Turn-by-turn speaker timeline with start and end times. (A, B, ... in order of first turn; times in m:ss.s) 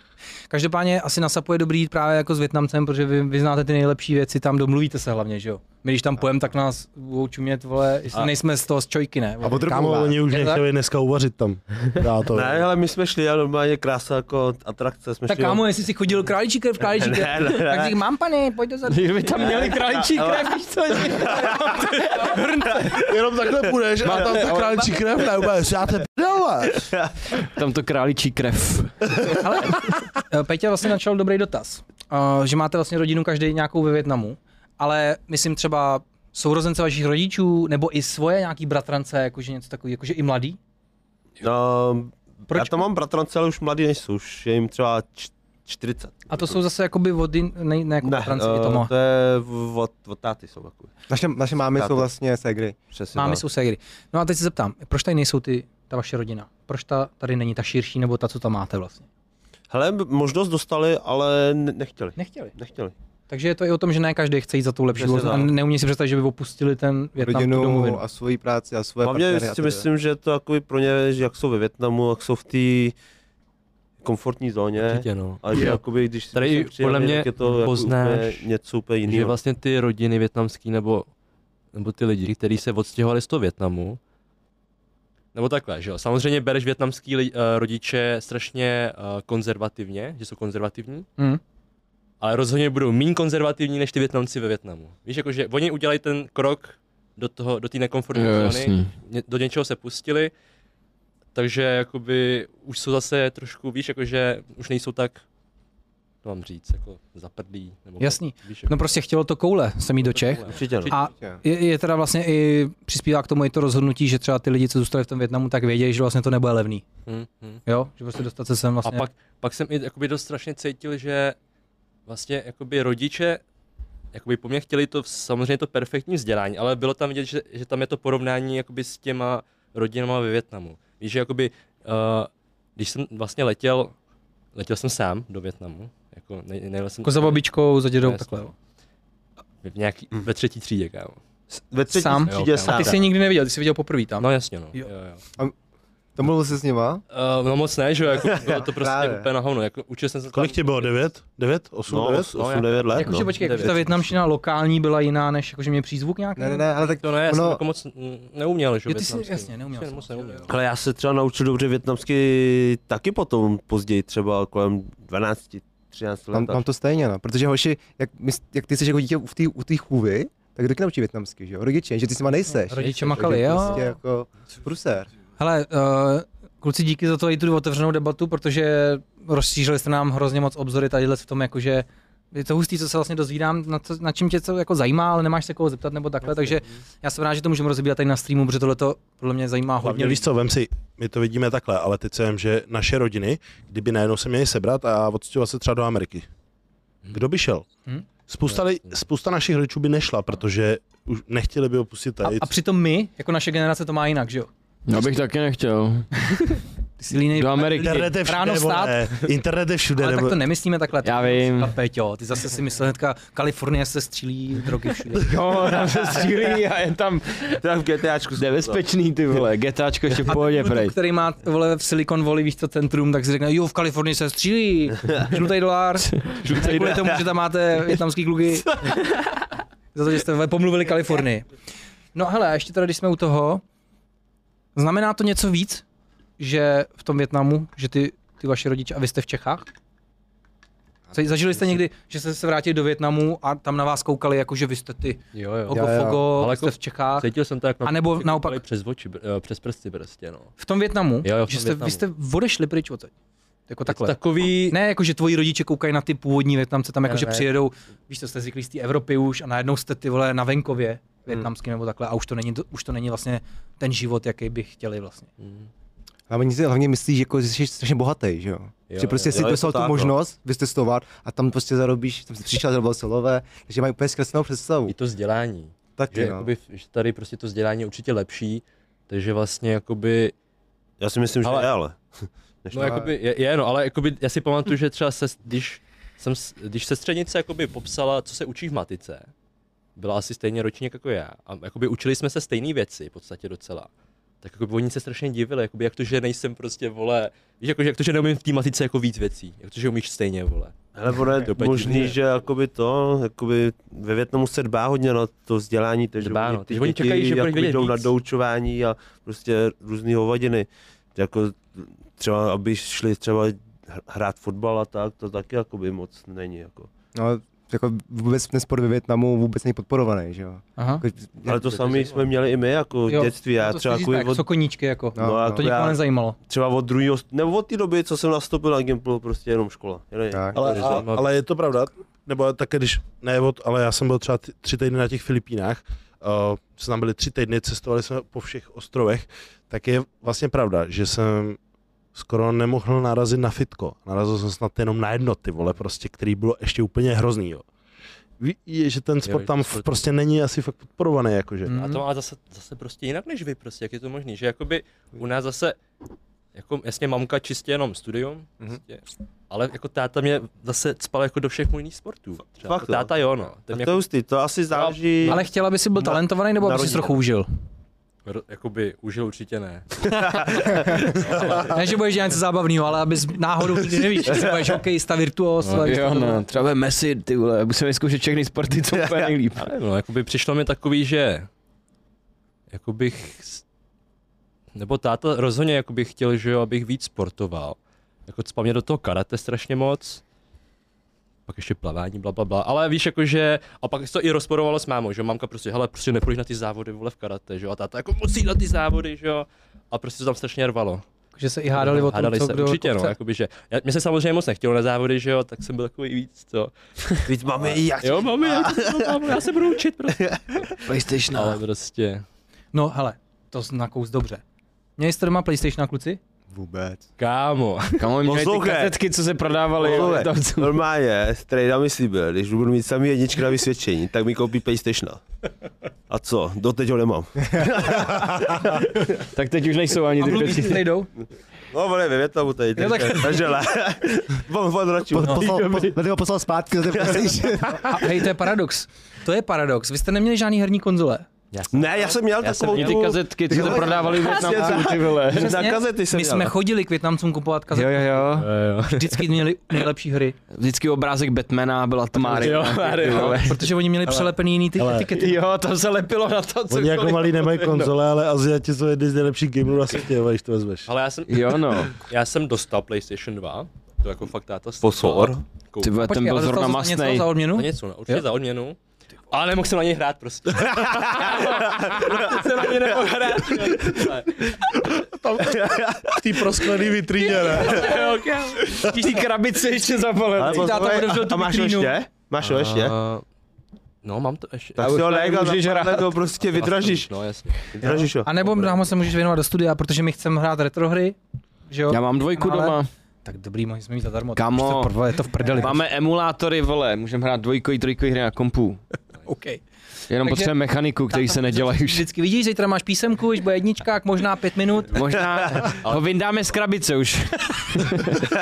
0:00.5-0:09.7 A
0:09.4-0:10.2 B
0:09.7-0:12.7 C
0:10.3-0:10.6 A
0:12.3-0:15.7 D
0:15.3-0:23.0 A
0:16.9-0:18.0 D
0:18.9-0:21.6 E
0:19.4-0:23.0 D
0:23.0-0:26.9 C
0:24.1-0:24.8 E
0:24.1-0:24.6 A
0:26.8-0:27.1 D
0:27.5-0:28.9 E
0:29.4-0:40.6 A
0:41.4-0:46.6 D
0:42.5-0:42.8 A
0:46.3-0:48.9 A
0:48.0-0:50.9 D
0:51.1-0:52.8 B
0:51.8-0:52.1 D
0:52.9-0:53.4 D
0:53.1-0:59.1 A
0:59.7-1:02.9 D
1:02.2-1:02.6 A
1:03.3-1:08.0 A
1:05.0-1:05.5 D
1:07.2-1:09.9 B
1:09.0-1:13.0 D
1:14.0-1:19.4 D
1:14.8-1:15.8 F
1:16.3-1:18.5 F
1:19.0-1:21.1 F
1:21.7-1:24.0 F
1:25.3-1:31.1 F
1:32.2-1:40.3 F
1:38.1-1:38.9 E
1:41.4-1:45.2 F
1:46.2-1:48.9 F
1:48.0-1:56.8 A
1:50.0-1:51.0 F
1:50.5-1:51.0 D
1:57.1-1:57.6 F
1:57.7-1:59.1 A
1:58.8-2:01.4 F
2:02.1-2:03.4 F
2:04.1-2:13.9 F
2:14.6-2:17.4 F
2:17.0-2:18.5 A
2:19.6-2:21.2 F
2:21.5-2:23.0 D
2:21.9-2:24.9 A
2:22.3-2:23.1 F
2:24.2-2:25.2 F
2:26.2-2:27.0 B
2:27.1-2:31.0 F
2:28.2-2:29.3 B
2:30.3-2:32.4 C
2:31.9-2:33.9 D
2:32.4-2:33.9 F
2:33.0-2:36.6 A
2:36.4-2:37.6 B
2:36.9-2:40.5 F
2:38.9-2:40.6 A
2:40.5-2:46.6 D
2:46.3-2:55.1 B
2:52.7-2:53.9 A
2:52.8-2:53.9 F
2:55.4-3:10.2 A
3:09.8-3:16.3 C
3:17.1-3:17.6 C
3:18.3-3:22.5 C
3:22.2-3:24.5 A
3:24.9-3:26.1 E
3:27.0-3:29.2 A
3:27.3-3:28.1 E
3:27.8-3:30.4 C
3:30.0-3:35.3 A
3:31.0-3:31.7 E
3:35.1-3:37.4 E
3:37.6-3:38.8 D
3:38.4-3:41.0 E
3:40.3-3:49.0 A
3:46.1-3:47.2 E
3:46.6-3:47.0 D
3:49.9-3:51.5 A
3:52.2-3:53.6 A
3:54.8-3:55.8 A
3:56.4-3:59.7 A
4:01.1-4:07.3 A
4:05.3-4:10.5 F
4:05.7-4:06.3 B
4:07.8-4:08.6 A
4:10.6-4:13.1 A
4:11.2-4:12.0 F
4:13.7-4:14.2 A
4:13.9-4:14.8 F
4:14.7-4:25.3 A
4:25.4-4:25.7 F
4:26.3-4:35.0 B
4:28.9-4:29.6 F
4:29.3-4:30.1 D
4:34.9-4:40.3 F
4:36.0-4:36.5 B
4:41.0-4:43.0 D
4:41.4-4:41.7 F
4:42.7-4:49.3 F
4:50.0-4:53.9 F
4:54.4-5:00.8 F
5:01.0-5:16.9 D
5:01.4-5:02.2 F
5:06.2-5:08.1 F
5:17.2-5:21.6 B
5:20.8-5:21.0 A
5:21.4-5:24.5 D
5:21.5-5:22.3 F
5:23.1-5:26.4 A
5:25.2-5:25.7 B
5:25.2-5:31.1 D
5:30.3-5:30.6 B
5:30.6-5:41.6 C
5:30.7-5:31.3 F
5:42.2-5:47.7 C
5:48.4-5:51.8 C
5:49.2-5:50.0 F
5:51.7-5:52.0 A
5:51.7-5:55.8 F
5:56.5-6:04.0 F
6:02.7-6:03.1 D
6:03.7-6:05.4 D
6:04.7-6:05.4 F
6:05.3-6:07.5 A
6:06.0-6:07.2 D
6:08.3-6:10.0 F
6:10.0-6:11.6 D
6:10.6-6:11.8 F
6:11.5-6:16.4 A
6:15.6-6:16.0 F
6:15.7-6:19.7 E
6:19.0-6:19.3 D
6:19.6-6:21.5 F
6:22.7-6:23.6 F
6:24.8-6:30.2 F
6:31.5-6:41.0 F
6:41.4-6:43.1 A
6:41.8-6:50.6 F
6:47.3-6:49.3 D
6:50.2-6:50.7 D
6:50.8-6:51.6 E
6:51.3-6:52.2 F
6:52.7-6:54.4 A
6:55.0-6:56.2 A
6:56.5-6:57.0 B
6:57.2-6:58.1 F
6:58.0-7:00.8 E
6:58.2-6:59.0 D
6:59.8-7:05.2 D
7:06.1-7:09.0 D
7:07.5-7:07.8 B
7:09.3-7:10.9 E
7:10.2-7:11.1 A
7:11.7-7:16.0 D
7:12.8-7:13.5 A
7:15.2-7:17.8 B
7:17.7-7:21.3 A
7:21.5-7:24.2 F
7:21.7-7:26.5 D
7:22.7-7:25.6 E
7:25.3-7:28.3 A
7:27.7-7:28.5 E
7:28.4-7:29.0 F
7:28.8-7:30.4 A
7:30.5-7:33.6 E
7:32.2-7:33.6 F
7:33.1-7:35.4 A
7:34.1-7:35.2 C
7:35.1-7:36.9 E
7:36.7-7:40.9 C
7:36.8-7:37.8 F
7:40.9-7:46.0 F
7:41.3-7:42.0 E
7:44.8-7:45.4 D
7:45.8-7:47.3 E
7:46.0-7:48.2 A
7:47.6-7:48.8 F
7:49.3-7:54.6 F
7:50.8-7:54.1 D
7:54.8-7:58.0 C
7:55.4-7:56.6 D
7:57.3-8:01.0 E
8:00.4-8:03.0 D
8:00.5-8:02.0 A
8:02.4-8:03.2 F
8:04.0-8:05.0 F
8:04.8-8:07.1 D
8:04.8-8:06.2 E
8:06.5-8:07.8 F
8:07.7-8:08.3 D
8:07.9-8:11.2 A
8:11.7-8:15.8 A
8:11.9-8:12.9 E
8:14.4-8:14.9 E
8:15.4-8:18.8 E
8:19.3-8:19.6 A
8:20.1-8:22.0 E
8:20.2-8:20.6 A
8:21.1-8:25.0 A
8:24.9-8:28.2 E
8:25.6-8:26.1 F